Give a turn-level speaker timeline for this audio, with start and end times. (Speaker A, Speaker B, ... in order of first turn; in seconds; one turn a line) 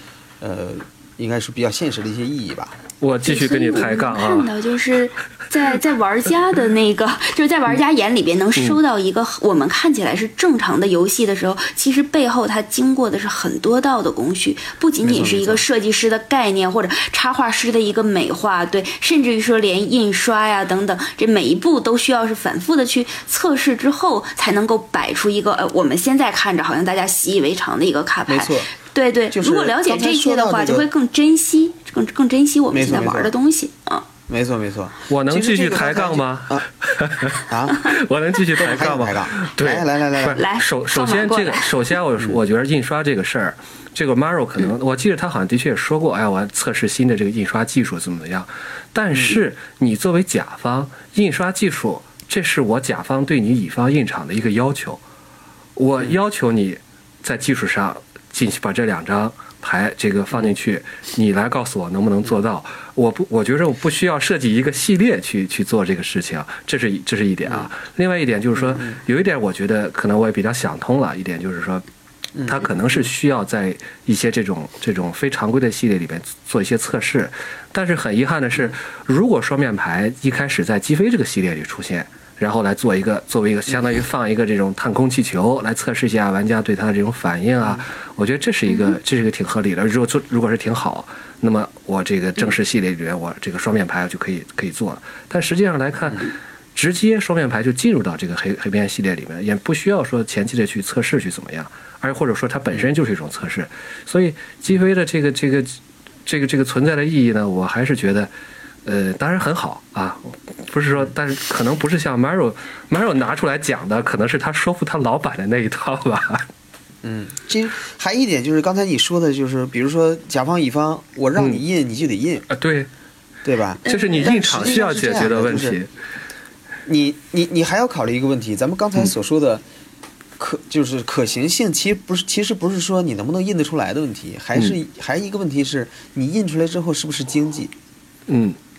Speaker A: 0.4-2.8
Speaker B: 3.0-4.5
Speaker C: 3.2-34.1
Speaker A: 15.0-15.6
Speaker A: 28.3-28.7
Speaker A: 29.3-30.9
Speaker A: 32.7-33.3
Speaker A: 34.3-36.7
Speaker B: 35.1-55.0
Speaker A: 37.4-37.9
Speaker A: 38.6-40.4
Speaker C: 40.2-41.7
Speaker A: 49.1-49.4
Speaker B: 55.8-71.8
Speaker A: 68.5-69.0
Speaker A: 72.4-73.0
Speaker B: 72.5-108.3
Speaker C: 88.7-89.0
Speaker B: 108.8-116.5
Speaker A: 117.0-122.5
Speaker B: 122.5-122.9
Speaker A: 123.4-125.8
Speaker C: 123.8-125.0
Speaker B: 123.8-125.9
Speaker A: 126.8-129.6
Speaker A: 130.4-137.7
Speaker B: 138.3-138.6